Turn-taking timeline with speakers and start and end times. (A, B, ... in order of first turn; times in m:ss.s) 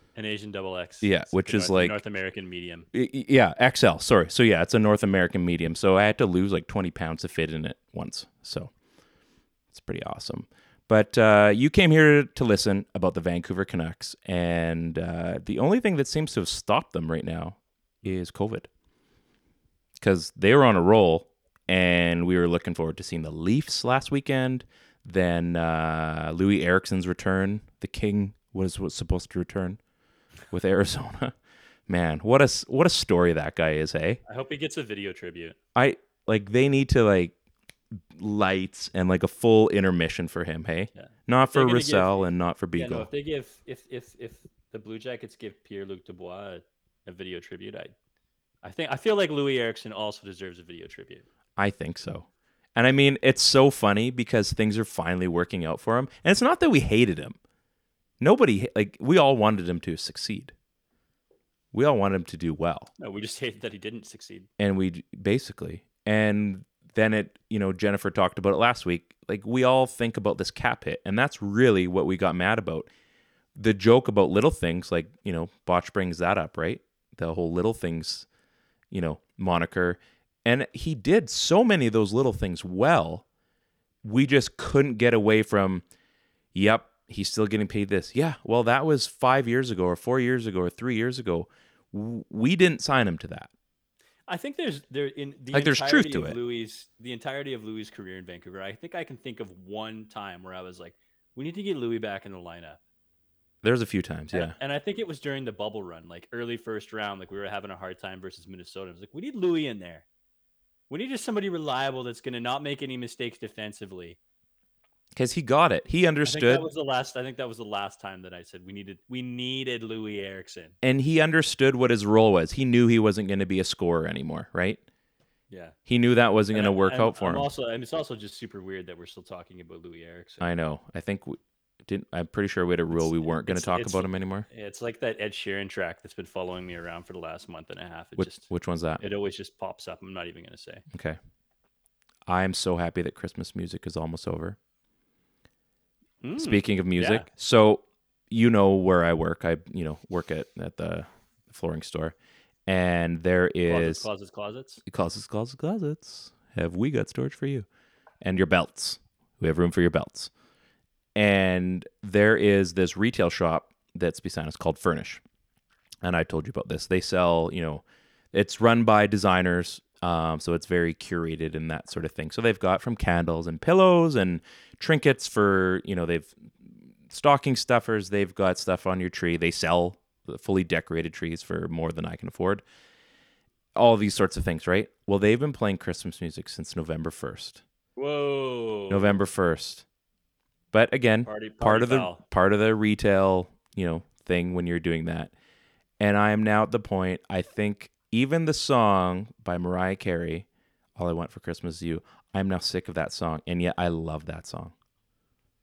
0:00.2-0:02.9 A
0:01.0-0:02.0 B
0:02.9-0:08.7 B
0:09.7-0:18.7 B
0:20.0-0:29.8 B
0:30.5-0:31.4 B
0:31.9-0:34.2 B
0:34.3-0:35.6 A
0:35.8-0:37.4 B
0:37.9-0:43.1 B
0:41.0-0:47.9 A
0:48.6-0:51.2 A
0:51.6-0:57.4 B
0:58.2-1:00.5 B
1:01.7-1:02.9 B
1:03.0-1:04.5 A
1:04.6-1:12.9 B
1:13.6-1:18.3 B
1:18.9-1:23.2 B
1:24.0-1:25.8 B
1:26.5-1:33.5 B
1:34.3-1:42.8 A
1:35.5-1:36.4 B
1:43.6-1:44.6 B
1:44.3-1:50.0 A
1:50.9-1:54.2 A
1:55.2-1:56.7 B
1:56.2-2:00.8 A
2:00.8-2:04.8 B
2:05.5-2:05.8 A
2:05.9-2:07.5 B
2:06.5-2:10.5 A
2:10.4-2:14.5 B
2:12.9-2:18.5 A
2:18.2-2:19.1 B
2:19.0-2:20.8 A
2:20.9-2:21.2 B
2:22.3-2:24.6 B
2:26.2-2:27.3 A
2:26.4-2:32.2 B
2:32.7-2:34.1 B
2:33.7-2:34.8 A
2:34.9-2:37.7 B
2:38.2-2:40.3 B
2:41.2-2:45.2 B
2:46.0-3:02.6 B
3:03.8-3:07.6 B
3:08.0-3:09.2 A
3:08.9-3:09.8 B
3:10.7-3:15.3 B
3:11.2-3:12.2 A
3:16.0-3:24.7 B